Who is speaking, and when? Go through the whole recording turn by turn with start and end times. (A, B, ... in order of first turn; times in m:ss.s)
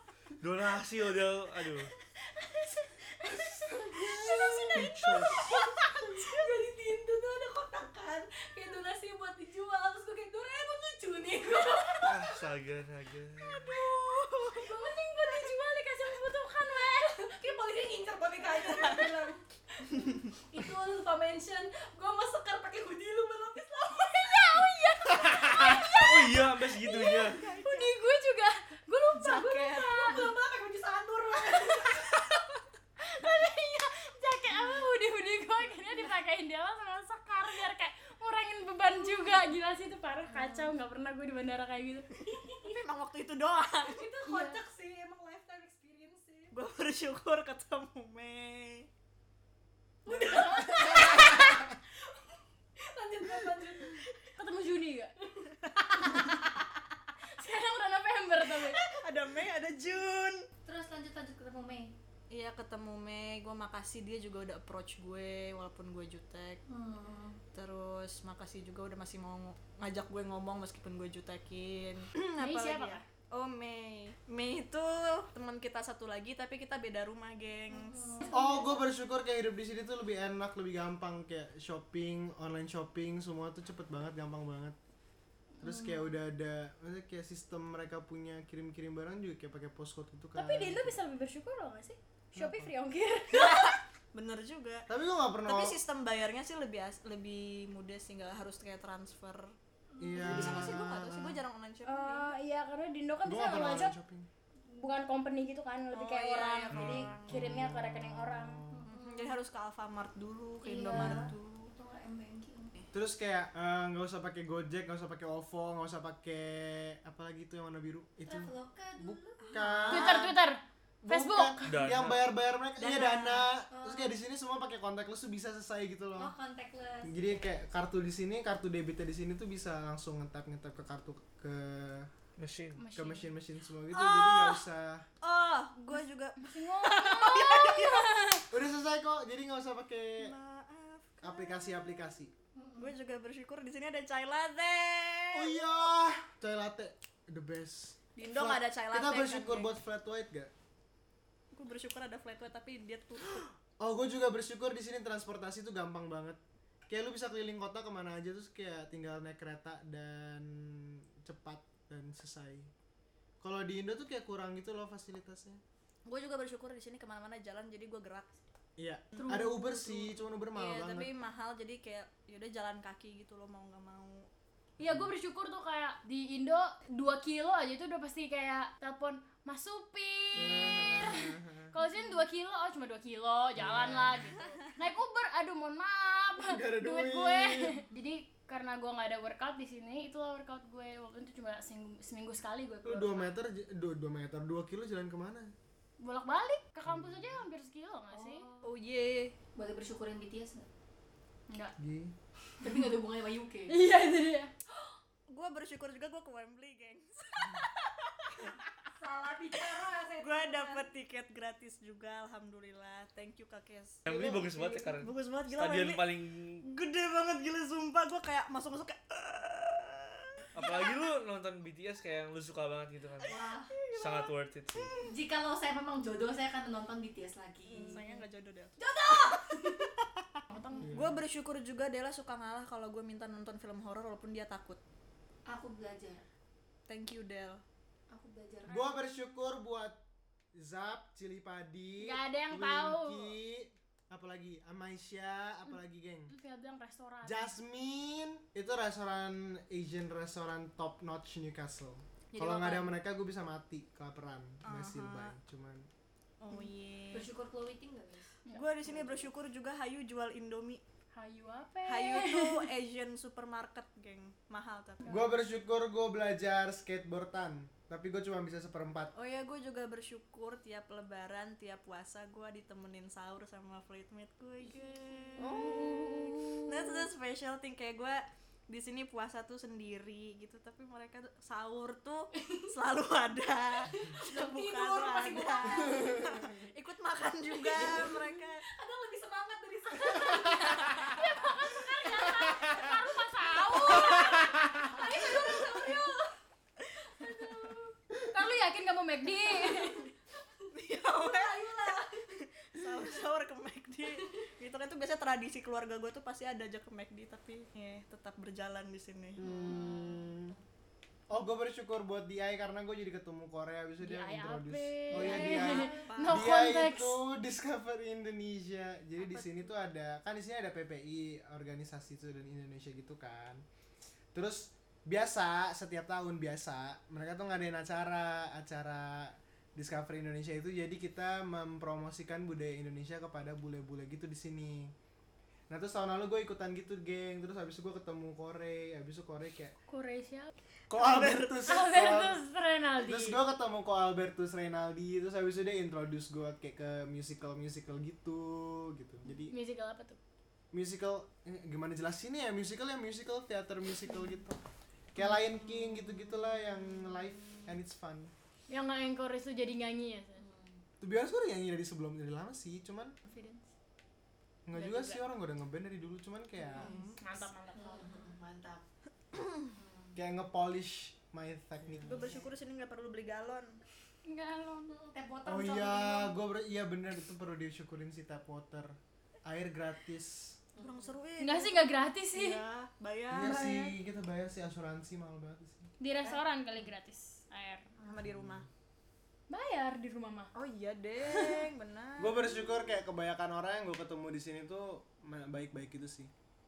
0:00.4-0:01.9 A
0:02.4-0:12.4 B
0:03.3-0:04.6 C
0:04.7-0:05.6 A
0:12.0-0:13.8 A
0:13.5-0:14.7 D
0:13.8-0:15.6 B
0:14.6-0:17.2 E
0:16.9-0:24.6 B
0:18.6-0:19.1 D
0:24.2-0:30.3 E
0:25.7-0:27.4 A
0:27.2-0:28.0 D
0:29.1-0:30.3 D
0:30.0-0:32.1 B
0:33.0-0:42.1 E
0:42.3-0:42.8 B
0:42.4-0:44.1 D
0:43.8-0:46.5 B
0:44.2-0:44.6 E
0:46.5-0:48.9 D
0:50.0-0:54.1 B
0:50.1-0:51.4 D
0:54.4-0:55.1 E
0:55.6-0:56.7 D
0:57.3-0:58.8 E
0:58.6-1:00.5 D
1:00.6-1:02.0 B
1:02.3-1:06.6 D
1:06.7-1:07.4 B
1:07.5-1:18.2 D
1:12.4-1:13.0 E
1:17.7-1:18.8 B
1:18.3-1:24.8 C
1:25.6-1:26.2 B
1:25.6-1:31.0 C
1:30.3-1:33.8 E
1:32.3-1:32.7 C
1:33.3-1:34.9 D
1:34.9-1:35.8 C
1:35.5-1:39.6 D
1:39.9-1:40.8 B
1:40.0-1:41.4 C
1:40.2-1:42.3 D
1:41.8-1:43.9 E
1:43.2-1:44.3 C
1:44.7-1:48.6 E
1:45.9-1:47.7 D
1:46.7-1:47.1 A
1:47.2-1:48.9 C
1:48.7-1:49.4 B
1:48.8-1:51.7 D
1:50.6-1:52.8 B
1:50.9-1:51.3 C
1:52.9-2:00.3 C
1:58.2-1:59.4 B
1:59.4-2:00.2 D
1:59.9-2:01.6 E
2:01.0-2:06.3 C
2:01.6-2:02.2 A
2:02.8-2:03.5 D
2:03.7-2:04.2 B
2:06.2-2:07.6 B
2:07.0-2:12.1 C
2:12.4-2:12.9 A
2:12.8-2:13.3 E
2:13.0-2:15.0 C
2:13.9-2:14.6 D
2:15.2-2:18.3 D
2:16.4-2:18.4 E
2:18.5-2:20.3 C
2:20.2-2:22.1 D
2:21.2-2:22.3 C
2:22.5-2:22.9 B
2:22.8-2:25.6 D
2:25.3-2:30.5 C
2:28.2-2:29.7 D
2:31.5-2:33.5 D
2:33.3-2:42.7 C
2:43.4-2:45.6 C
2:46.0-2:48.3 D
2:48.8-2:51.1 C
2:49.3-2:54.3 D
2:54.8-3:13.3 E
3:00.3-3:01.7 C
3:03.6-3:04.4 C
3:06.4-3:07.8 C
3:12.8-3:15.5 C
3:16.0-3:18.4 E
3:16.8-3:17.4 C
3:18.1-3:18.8 B
3:18.6-3:19.3 D
3:19.5-3:20.7 B
3:21.5-3:21.8 E
3:21.8-3:22.2 C
3:22.6-3:23.8 B
3:23.7-3:24.5 E
3:25.3-3:28.6 D
3:29.0-3:30.8 B
3:29.5-3:36.1 D
3:34.0-3:36.7 A
3:36.6-3:40.9 D
3:40.5-3:43.4 A
3:43.2-3:45.1 D
3:43.2-3:43.7 B
3:44.0-3:44.9 A
3:45.0-3:48.2 B
3:47.7-3:54.8 D
3:48.8-3:49.9 B
3:50.5-3:50.9 B
3:50.8-3:51.2 C
3:55.5-3:56.2 B
3:56.9-3:57.6 D
3:58.1-3:59.0 B
3:58.7-4:00.0 C
4:00.5-4:06.3 C
4:02.0-4:03.4 E
4:06.3-4:07.5 E
4:07.2-4:15.9 C
4:12.3-4:12.9 E
4:14.6-4:15.3 D
4:16.4-4:17.3 D
4:17.1-4:19.3 B
4:18.5-4:20.8 D
4:21.1-4:22.7 E
4:21.8-4:25.2 D
4:25.1-4:29.1 C
4:29.2-4:48.6 D
4:34.6-4:35.5 B
4:35.4-4:36.2 C
4:42.3-4:42.7 B
4:43.9-4:46.5 B
4:45.8-4:46.4 C
4:47.6-4:51.3 B
4:50.4-4:54.9 E
4:52.3-4:52.8 B
4:53.5-4:56.3 B
4:57.0-4:57.9 B
4:58.2-5:00.1 E
5:00.6-5:02.2 B
5:00.7-5:09.4 D
5:09.4-5:10.6 C
5:09.4-5:10.6 B
5:11.3-5:23.6 C
5:14.0-5:17.2 E
5:15.1-5:16.0 B
5:15.3-5:16.5 D
5:19.2-5:19.7 D
5:24.3-5:34.9 C
5:35.7-5:39.8 C
5:39.9-5:40.5 E
5:40.9-5:42.4 C
5:41.6-5:43.4 E
5:43.0-5:49.5 C
5:49.5-5:50.2 E
5:50.7-5:54.6 C
5:55.1-5:58.3 C
5:58.7-6:00.4 E
6:00.4-6:00.8 B
6:01.0-6:03.2 C
6:03.3-6:03.7 E
6:04.7-6:07.0 C
6:04.7-6:05.2 E
6:06.7-6:07.2 D
6:06.8-6:08.2 E
6:07.8-6:08.8 B
6:09.7-6:10.2 B
6:10.2-6:12.3 C
6:12.0-6:13.8 D
6:12.1-6:12.5 B
6:14.2-6:15.0 E
6:14.9-6:16.4 B
6:15.5-6:20.6 C
6:20.8-6:21.2 B
6:20.8-6:23.7 D
6:21.4-6:22.6 E
6:23.3-6:25.9 C
6:23.4-6:24.0 E
6:26.0-6:27.9 E
6:28.0-6:28.7 D
6:28.2-6:28.7 C
6:29.5-6:30.5 E
6:30.5-6:32.8 D
6:31.3-6:31.6 E
6:32.2-6:36.3 C